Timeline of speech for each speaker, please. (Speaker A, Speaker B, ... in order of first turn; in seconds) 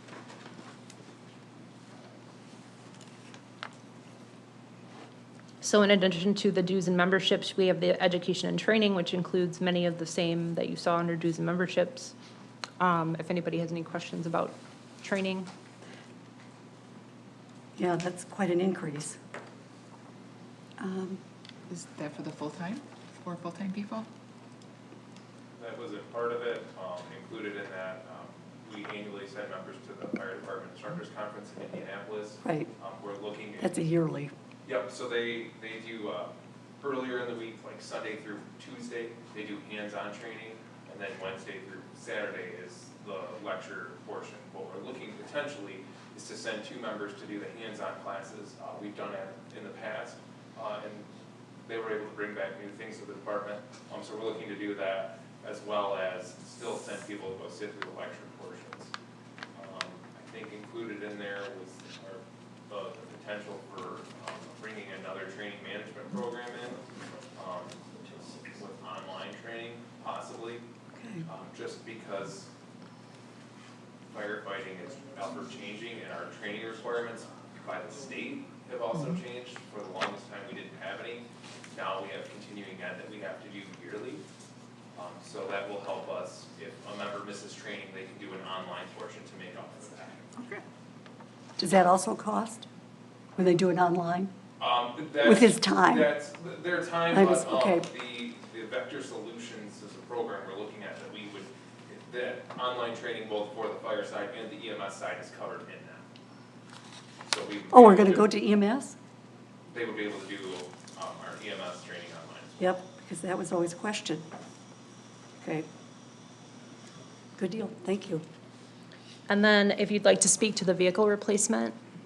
Speaker A: 5.6-12.1, 12.8-15.5, 119.3-121.8
Speaker B: 17.8-19.2, 20.8-21.2, 32.4-32.7, 33.6-34.3, 71.0-71.3, 91.6-92.7, 93.4-94.3, 95.2-96.1, 97.1-97.9, 107.7-109.0, 112.6-114.3, 115.4-115.7, 117.4-118.2
Speaker C: 21.7-24.1
Speaker D: 25.6-33.9, 34.7-51.1, 51.6-58.9, 59.5-70.7, 71.2-72.5, 74.1-84.2, 84.9-90.3, 94.6-106.0, 107.3-108.3, 109.7-112.8